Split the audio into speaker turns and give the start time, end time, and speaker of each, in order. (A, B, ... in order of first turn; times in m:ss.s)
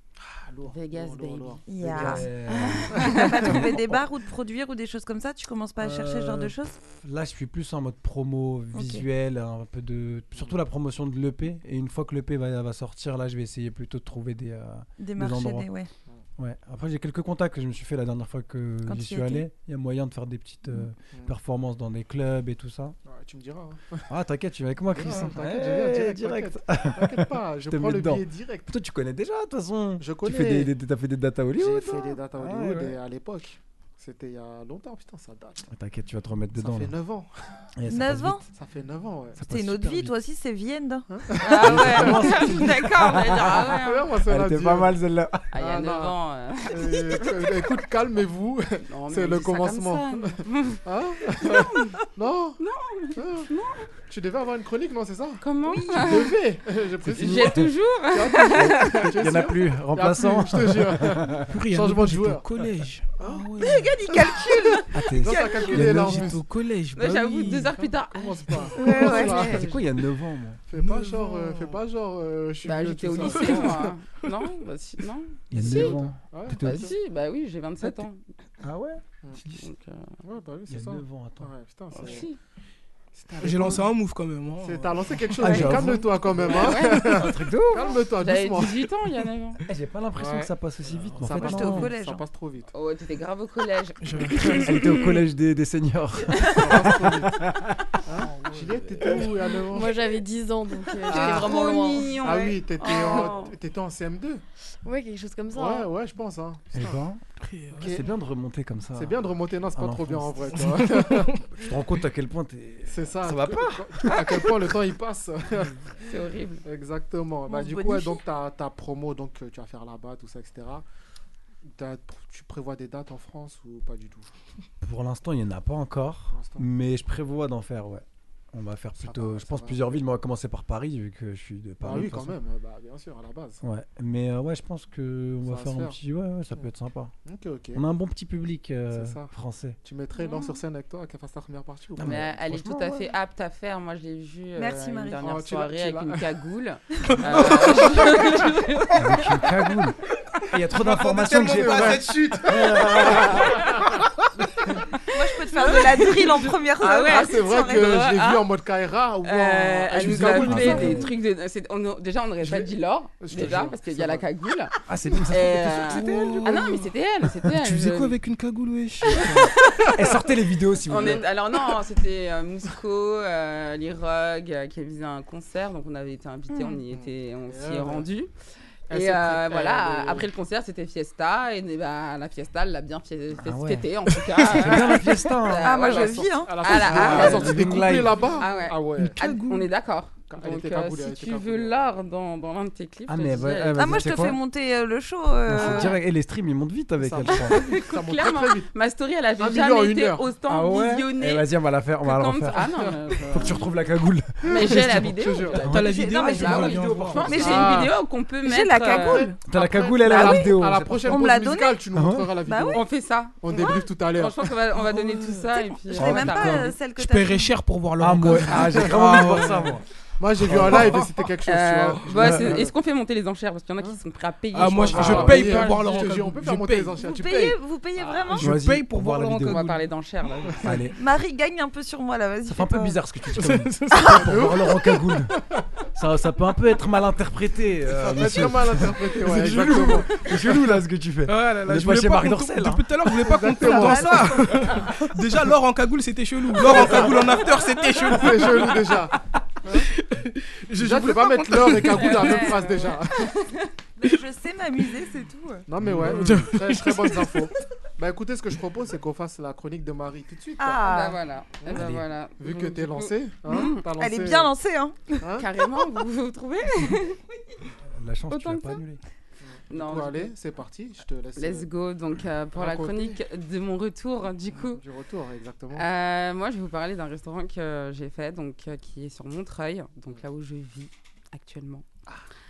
0:00.2-0:02.3 A
0:00.6-0:03.6 B
0:01.7-0:02.3 C
0:01.8-0:04.0 D
0:02.9-0:06.7 C
0:03.0-0:03.4 A
0:05.8-0:15.7 D
0:08.7-0:09.0 C
0:15.0-0:15.9 C
0:16.4-0:23.0 D
0:18.8-0:19.4 C
0:23.0-0:24.1 A
0:24.1-0:33.0 D
0:24.9-0:28.7 A
0:30.0-0:30.7 A
0:31.6-0:35.7 A
0:35.7-0:36.9 D
0:36.6-0:37.5 A
0:37.8-0:38.4 D
0:37.9-0:38.4 C
0:38.5-0:39.4 A
0:39.4-0:40.2 D
0:39.4-0:41.1 C
0:41.1-0:42.6 A
0:41.4-0:44.1 B
0:41.5-0:45.5 D
0:43.6-0:45.0 A
0:45.5-0:47.7 B
0:45.5-0:52.6 A
0:48.9-0:50.8 B
0:51.4-0:52.0 B
0:52.6-0:53.9 B
0:53.2-0:53.5 A
0:54.1-1:02.4 A
0:55.4-0:56.4 B
0:55.6-0:56.2 C
0:57.0-0:57.7 D
0:57.2-0:59.1 B
0:58.6-1:01.5 D
1:01.4-1:03.9 E
1:03.2-1:03.5 A
1:03.6-1:05.4 C
1:04.1-1:04.5 A
1:04.9-1:06.3 D
1:05.2-1:06.4 A
1:05.8-1:07.8 E
1:06.9-1:09.8 B
1:08.0-1:09.8 A
1:08.8-1:09.6 C
1:09.0-1:10.6 D
1:10.7-1:13.9 A
1:10.7-1:11.4 E
1:12.6-1:16.0 B
1:13.2-1:13.6 E
1:15.5-1:16.9 D
1:15.5-1:16.9 A
1:16.6-1:18.2 B
1:18.6-1:19.6 D
1:19.6-1:20.1 B
1:20.2-1:22.3 A
1:20.7-1:22.2 D
1:21.9-1:22.4 B
1:23.1-1:24.0 A
1:23.4-1:25.8 E
1:24.6-1:28.9 A
1:25.4-1:28.0 D
1:26.5-1:27.3 B
1:28.2-1:29.6 B
1:29.7-1:31.9 D
1:30.2-1:30.5 A
1:31.0-1:32.7 A
1:31.3-1:32.2 C
1:32.7-1:35.2 B
1:34.0-1:34.8 E
1:34.6-1:38.0 D
1:36.4-1:37.4 A
1:38.0-1:40.1 A
1:38.6-1:39.2 D
1:39.7-1:42.0 F
1:41.0-1:41.5 A
1:41.1-1:43.5 B
1:41.1-1:42.9 C
1:42.2-1:44.4 A
1:44.8-1:45.9 F
1:45.5-1:47.0 A
1:46.7-1:47.2 D
1:47.4-1:47.9 E
1:47.7-1:48.1 A
1:47.8-1:50.8 D
1:49.0-1:51.4 A
1:51.5-1:54.7 D
1:52.9-2:00.8 A
1:56.0-1:56.6 B
1:57.5-1:58.2 C
2:01.6-2:04.3 A
2:04.8-2:12.4 D
2:06.3-2:06.6 A
2:09.0-2:10.0 A
2:11.8-2:13.6 A
2:13.6-2:17.1 D
2:15.4-2:16.0 A
2:17.2-2:17.8 A
2:17.7-2:19.8 D
2:18.9-2:19.3 A
2:19.8-2:22.4 A
2:20.1-2:20.6 B
2:22.0-2:23.1 D
2:22.0-2:29.2 B
2:24.6-2:25.2 C
2:25.2-2:26.2 A
2:27.0-2:29.0 E
2:27.4-2:28.0 A
2:28.9-2:30.0 D
2:30.5-2:33.6 D
2:30.8-2:33.3 E
2:31.5-2:34.0 A
2:35.0-2:37.9 C
2:35.6-2:38.4 B
2:35.7-2:36.0 A
2:37.0-2:41.1 A
2:39.2-2:44.7 B
2:40.0-2:41.1 D
2:40.3-2:40.9 E
2:42.4-2:44.2 A
2:44.9-2:46.6 D
2:45.3-2:48.2 B
2:45.8-2:46.9 E
2:47.4-2:49.5 E
2:49.0-2:51.3 D
2:49.4-2:49.9 B
2:50.9-2:58.3 B
2:50.9-2:51.2 A
2:56.5-2:56.8 C
2:56.9-2:58.1 A
2:58.9-3:00.3 A
2:58.9-3:14.1 B
3:03.4-3:03.9 D
3:04.4-3:05.7 D
3:05.6-3:06.6 C
3:05.8-3:09.2 A
3:06.6-3:08.3 D
3:09.0-3:09.7 E
3:10.3-3:11.7 A
3:13.1-3:14.4 D
3:13.8-3:16.0 C
3:15.5-3:17.6 D
3:15.6-3:16.0 B
3:17.0-3:18.7 A
3:17.3-3:21.5 B
3:19.4-3:20.3 A
3:20.5-3:22.6 D
3:22.0-3:23.6 B
3:22.5-3:23.6 A
3:23.3-3:25.1 D
3:24.4-3:29.4 B
3:24.6-3:25.7 A
3:25.6-3:27.3 E
3:25.9-3:26.7 C
3:26.4-3:27.5 D
3:27.2-3:27.9 C
3:27.3-3:27.9 A
3:28.4-3:29.4 C
3:28.8-3:32.8 A
3:29.4-3:31.2 D
3:30.0-3:30.4 B
3:30.1-3:31.8 C
3:31.9-3:32.3 D
3:32.4-3:32.8 C
3:32.7-3:36.7 B
3:33.4-3:34.4 A
3:34.9-3:35.4 E
3:35.7-3:37.5 C
3:36.0-3:36.7 D
3:37.0-3:39.8 E
3:38.0-3:39.8 D
3:38.7-3:39.5 A
3:40.2-3:42.7 A
3:40.4-3:41.0 D
3:40.6-3:41.1 E
3:41.4-3:45.8 B
3:42.2-3:42.6 D
3:44.5-3:47.0 E
3:44.6-3:47.6 A
3:47.0-3:48.5 C
3:48.4-3:49.7 E
3:48.4-3:49.8 D
3:48.9-3:50.7 B
3:50.6-3:51.0 D
3:50.9-3:53.0 C
3:52.4-3:55.4 D
3:53.3-3:54.2 E
3:54.0-3:55.6 A
3:55.9-4:03.2 D
3:57.9-4:00.3 A
4:01.3-4:09.0 E
4:03.2-4:04.3 A
4:03.8-4:04.4 C
4:06.6-4:07.1 D
4:06.7-4:07.3 A
4:08.0-4:09.9 A
4:09.8-4:12.2 E
4:10.8-4:13.5 A
4:11.9-4:13.7 B
4:12.2-4:12.6 C
4:14.0-4:15.6 C
4:15.7-4:20.9 A
4:15.8-4:16.5 D
4:16.0-4:17.4 E
4:20.6-4:21.2 C
4:20.8-4:23.8 B
4:21.6-4:21.9 A
4:21.7-4:22.0 D
4:22.4-4:24.5 A
4:23.5-4:25.2 C
4:25.2-4:25.5 A
4:25.4-4:27.2 B
4:27.9-4:29.0 D
4:28.3-4:28.8 B
4:29.4-4:31.7 A
4:29.7-4:30.3 B
4:31.4-4:34.8 B
4:32.5-4:33.2 A
4:34.5-4:35.8 A
4:35.7-4:41.8 B